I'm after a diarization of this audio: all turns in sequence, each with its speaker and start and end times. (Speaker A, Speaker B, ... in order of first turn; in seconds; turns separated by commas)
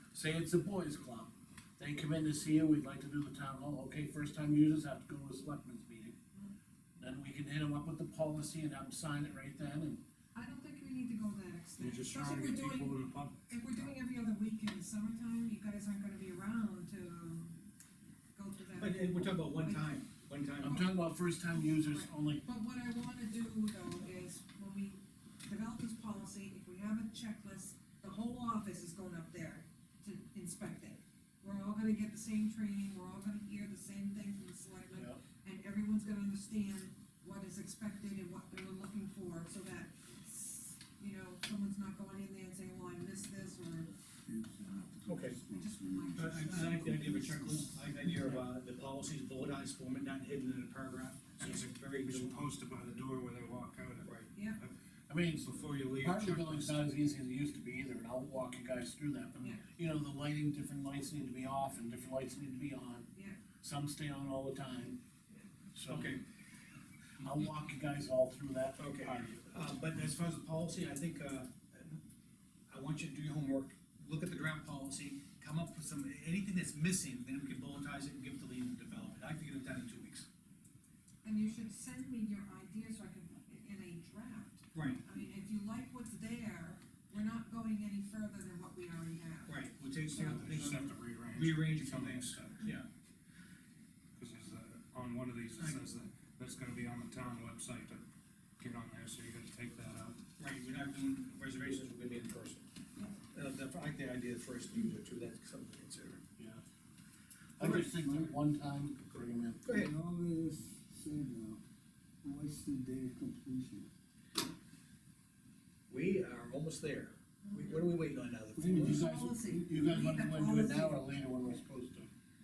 Speaker A: 0.1-6.2, Speaker A: 7.0-10.0, Speaker B: 10.3-17.6, Speaker C: 11.8-13.9, Speaker B: 18.3-20.0, Speaker D: 18.8-20.9, Speaker B: 20.6-43.9, Speaker A: 20.6-22.4, Speaker A: 34.9-35.2, Speaker E: 44.2-47.8, Speaker D: 45.1-45.4, Speaker B: 45.5-46.9, Speaker D: 46.1-52.4, Speaker C: 51.4-54.7, Speaker D: 54.0-54.3, Speaker B: 54.3-54.6, Speaker A: 55.1-63.1, Speaker C: 55.3-56.9, Speaker B: 59.4-59.6, Speaker B: 63.1-63.4, Speaker A: 63.6-65.0, Speaker A: 65.7-66.2, Speaker D: 65.9-66.2, Speaker A: 67.2-69.4, Speaker D: 68.8-72.0, Speaker D: 72.7-80.3, Speaker B: 81.2-90.6, Speaker D: 84.7-85.0, Speaker D: 89.5-92.9, Speaker C: 90.1-92.7, Speaker C: 94.2-98.0, Speaker C: 98.6-100.2, Speaker D: 100.4-102.6, Speaker D: 103.3-106.2, Speaker A: 107.6-109.6, Speaker D: 107.6-108.3, Speaker D: 109.6-109.9, Speaker E: 109.7-111.6, Speaker E: 112.2-113.9, Speaker D: 115.9-119.0, Speaker B: 117.5-117.9, Speaker E: 118.5-119.1, Speaker B: 118.7-121.1, Speaker A: 118.8-122.1